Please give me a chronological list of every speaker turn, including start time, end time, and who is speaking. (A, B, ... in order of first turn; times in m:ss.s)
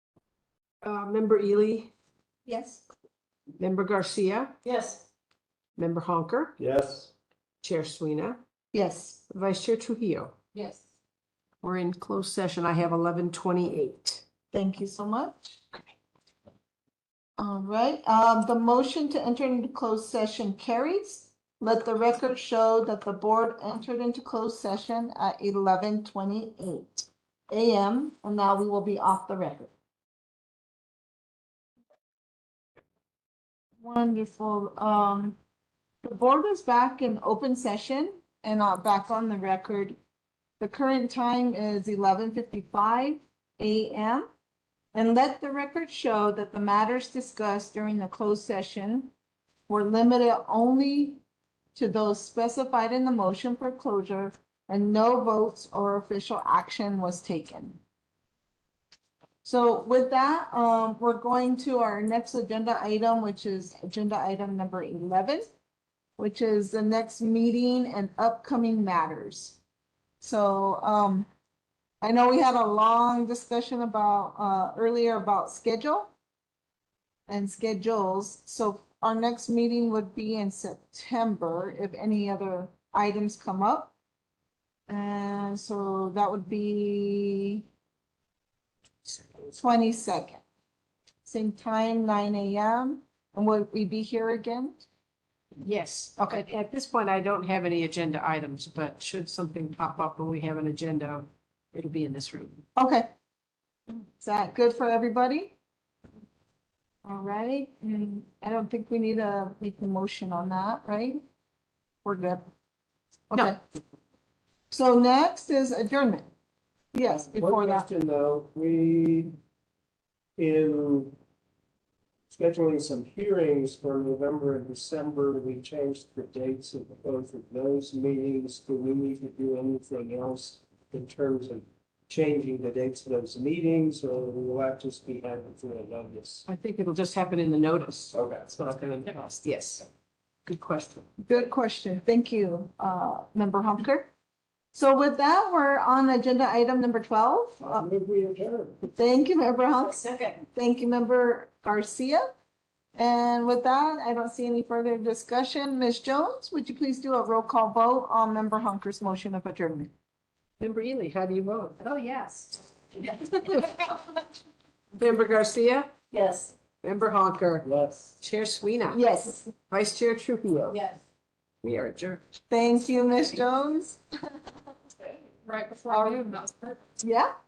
0:00.8-0:01.9 A
0:02.5-0:02.8 B
0:03.6-0:04.6 A
0:04.6-0:05.0 C
0:05.8-0:06.6 A
0:06.6-0:07.1 D
0:07.6-0:08.4 A
0:08.7-0:09.2 B
0:09.3-0:10.4 A
0:11.6-0:14.2 A
0:14.5-0:15.6 B
0:17.4-0:29.7 B
0:33.8-0:35.4 B
0:36.0-0:40.0 B
0:40.6-0:44.3 B
0:44.9-0:49.1 B
0:49.7-0:51.2 B
0:51.8-0:57.8 B
0:59.4-1:05.5 B
1:06.2-1:09.6 B
1:10.2-1:11.3 B
1:12.0-1:16.1 B
1:17.3-1:23.9 B
1:24.9-1:27.7 B
1:29.5-1:30.4 B
1:31.2-1:34.8 B
1:35.6-1:42.6 A
1:42.8-1:43.1 B
1:44.2-1:45.6 B
1:47.0-1:51.2 B
1:52.0-1:52.5 B
1:53.3-1:53.6 B
1:54.7-1:56.3 B
1:56.9-1:57.9 B
1:57.3-1:59.3 D
2:00.4-2:01.2 D
2:02.3-2:16.4 D
2:16.5-2:19.9 A
2:18.1-2:18.6 D
2:20.5-2:21.1 A
2:21.2-2:24.1 B
2:24.7-2:27.9 B
2:27.6-2:28.8 D
2:28.9-2:32.3 B
2:33.0-2:39.9 B
2:40.6-2:41.9 A
2:41.9-2:43.3 C
2:43.5-2:43.8 A
2:45.0-2:46.1 A
2:46.1-2:46.5 C
2:46.8-2:47.6 A
2:47.6-2:48.2 D
2:48.2-2:50.8 A
2:48.9-2:49.5 B
2:50.7-2:51.0 C
2:51.6-2:52.2 A
2:52.5-2:54.0 B
2:55.4-2:56.8 C
2:55.9-2:56.3 B
2:57.0-2:57.3 B